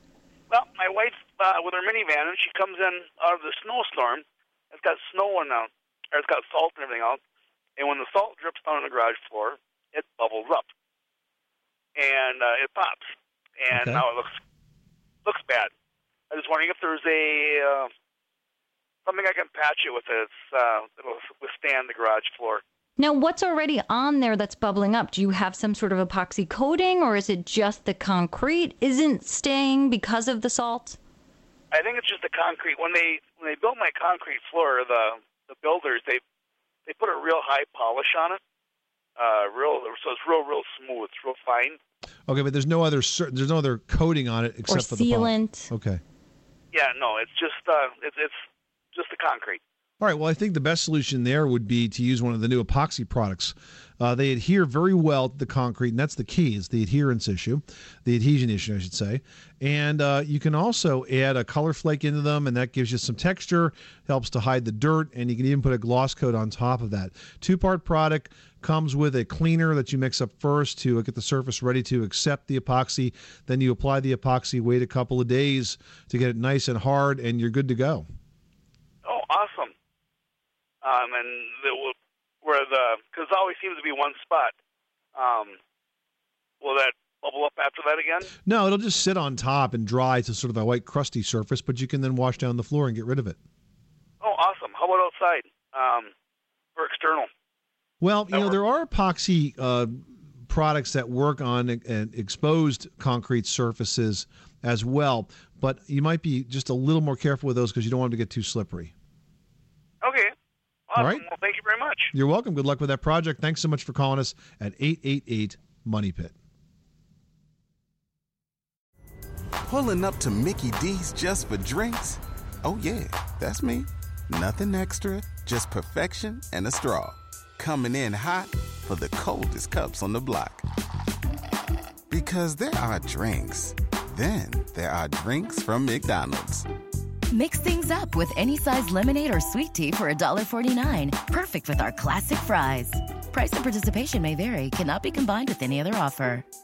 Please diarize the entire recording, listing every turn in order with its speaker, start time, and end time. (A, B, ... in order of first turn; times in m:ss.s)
0:00.5-0:07.2 A
0:07.8-0:10.7 A
0:12.0-0:14.4 A
0:13.7-0:14.0 B
0:15.2-0:15.7 A
0:16.3-0:17.9 A
0:19.1-0:22.6 A
0:23.0-0:31.0 C
0:31.7-0:36.2 A
0:36.9-0:38.4 A
0:39.2-0:41.8 A
0:42.3-0:46.0 B
0:44.7-0:45.7 C
0:46.7-0:49.6 A
0:50.0-1:18.0 B
1:19.0-1:19.7 A
1:20.8-1:24.5 A
1:25.2-1:25.6 A
1:26.6-1:28.3 A
1:28.4-1:33.4 B
1:34.2-1:36.1 A
1:36.8-1:37.3 A
1:38.0-1:48.9 B
1:38.3-1:38.6 A
1:50.0-1:50.3 A
1:50.9-1:52.1 A
1:51.0-1:51.2 B
1:52.1-1:56.3 B
1:59.7-2:10.6 D
2:12.1-2:16.7 D
2:17.3-2:26.4 E